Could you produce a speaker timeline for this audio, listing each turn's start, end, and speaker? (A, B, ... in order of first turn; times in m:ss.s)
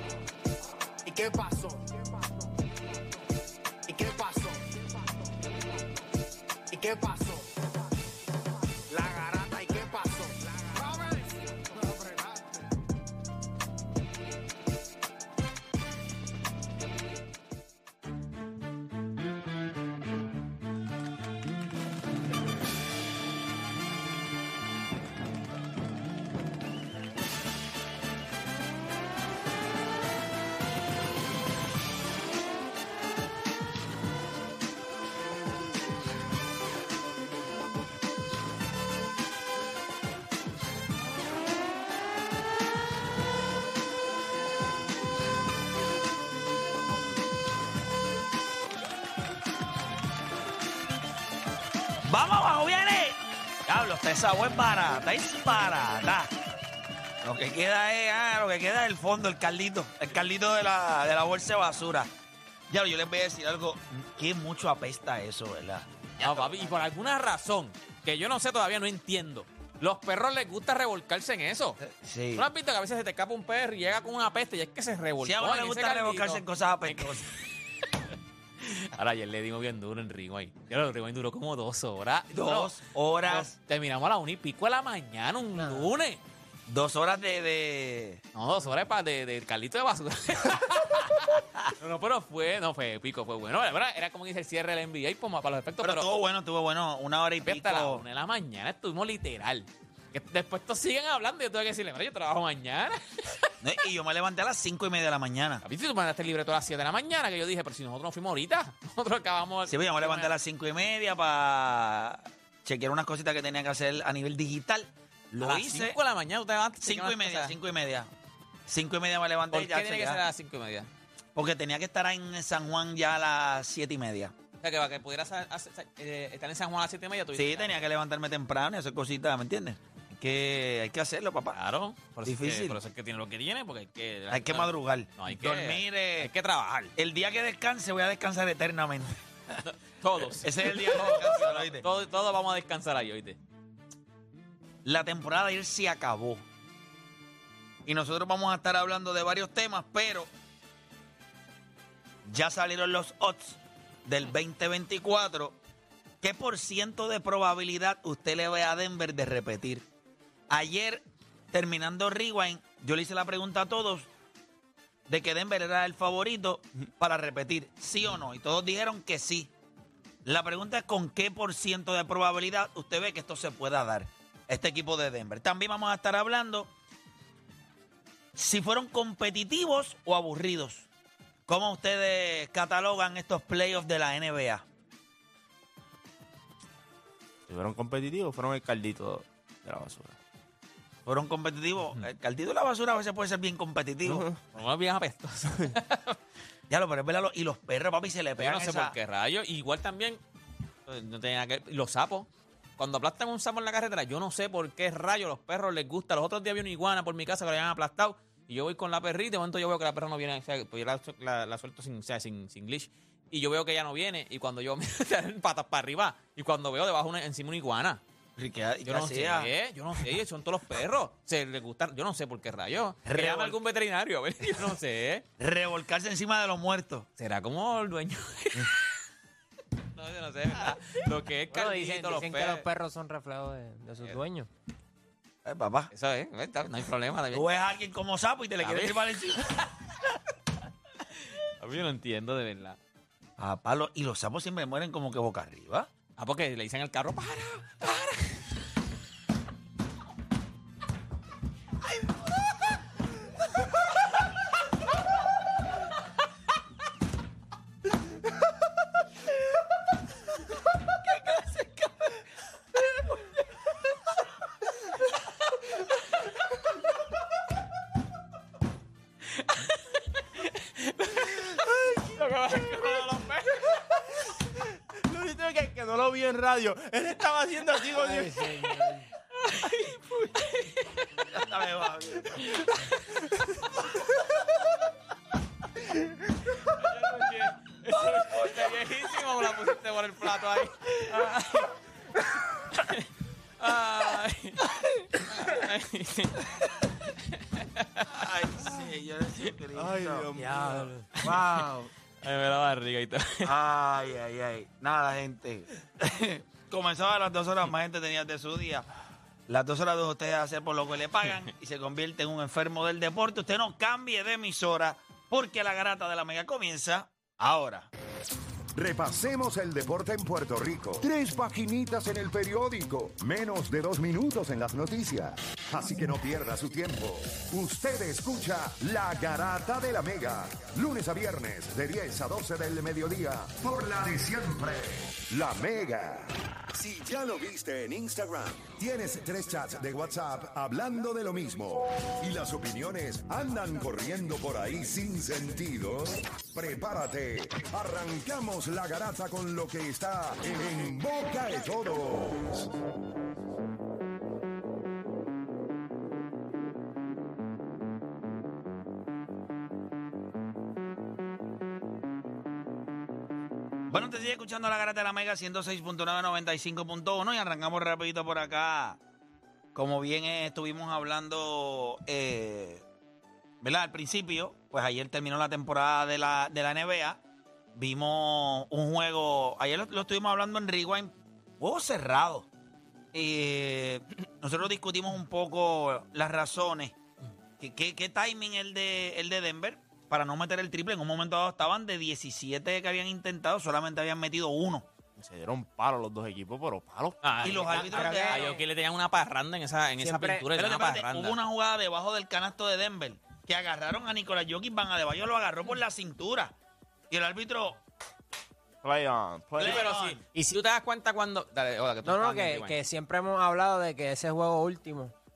0:01.0-0:02.0 A
0:03.9-0:05.2 A
0:06.7-0:07.5 A
0:08.9-0:12.5 A
0:52.0-0:56.3 B
0:57.2-1:02.1 B
1:02.7-1:06.8 B
1:06.2-1:11.8 C
1:11.8-1:12.5 B
1:12.4-1:17.4 C
1:15.2-1:17.3 B
1:18.6-1:22.8 C
1:22.3-1:23.5 B
1:23.3-1:26.2 C
1:26.7-1:28.2 B
1:28.3-1:36.1 C
1:35.8-1:38.0 B
1:37.4-1:43.5 C
1:43.6-1:45.6 B
1:45.6-1:50.3 C
1:49.7-1:56.0 B
1:55.4-1:57.6 C
1:56.8-1:58.1 B
1:58.7-2:00.2 B
1:59.5-2:00.9 C
2:01.4-2:04.3 B
2:04.6-2:07.8 C
2:07.4-2:11.6 B
2:11.5-2:16.9 C
2:12.3-2:12.8 B
2:14.3-2:16.3 B
2:17.0-2:19.6 B
2:19.6-2:23.4 C
2:20.4-2:21.9 B
2:24.8-2:26.4 B
2:27.9-2:30.3 B
2:32.3-2:35.6 B
2:36.2-2:39.8 B
2:40.5-2:44.1 B
2:45.1-2:49.5 B
2:50.2-2:56.7 B
2:58.4-3:00.9 B
3:01.5-3:04.6 B
3:07.5-3:10.2 D
3:11.1-3:14.3 B
3:14.0-3:14.4 D
3:14.5-3:16.2 C
3:16.7-3:19.0 B
3:18.4-3:20.2 C
3:20.9-3:38.0 C
3:38.4-3:39.5 B
3:38.8-3:45.2 C
3:43.1-3:43.6 B
3:45.4-3:47.1 B
3:47.2-3:48.9 C
3:50.0-3:52.6 C
3:51.5-3:54.5 E
3:55.4-3:55.9 B
3:55.9-3:57.4 C
3:57.3-3:59.6 B
3:58.6-3:59.5 C
4:01.6-4:02.8 C
4:03.4-4:05.9 B
4:06.2-4:08.4 C
4:29.4-4:33.8 C
4:35.1-4:38.4 D
4:38.0-4:39.1 E
4:39.4-4:41.1 C
4:41.3-4:42.6 B
4:46.6-4:51.7 C
4:47.9-4:48.8 B
4:52.8-4:53.1 C
4:53.6-4:56.4 C
4:57.6-4:58.1 C
4:58.1-5:00.6 B
4:59.7-5:01.8 D
5:00.4-5:01.0 E
5:01.2-5:01.5 C
5:02.2-5:03.5 C
5:03.4-5:08.9 B
5:09.5-5:17.9 B
5:18.8-5:52.7 F
6:03.9-6:09.0 B
6:09.8-6:12.8 B
6:13.6-6:17.2 B
6:17.8-6:22.5 B
6:23.1-6:27.0 B
6:27.6-6:34.9 B
6:35.2-6:37.2 D
6:37.2-6:41.4 C
6:37.4-6:38.6 B
6:37.7-6:38.6 E
6:40.0-6:40.5 E
6:40.6-6:46.5 B
6:47.1-6:47.8 B
6:48.8-6:49.9 D
6:49.6-6:50.2 B
6:49.6-6:52.8 C
6:52.0-6:55.1 E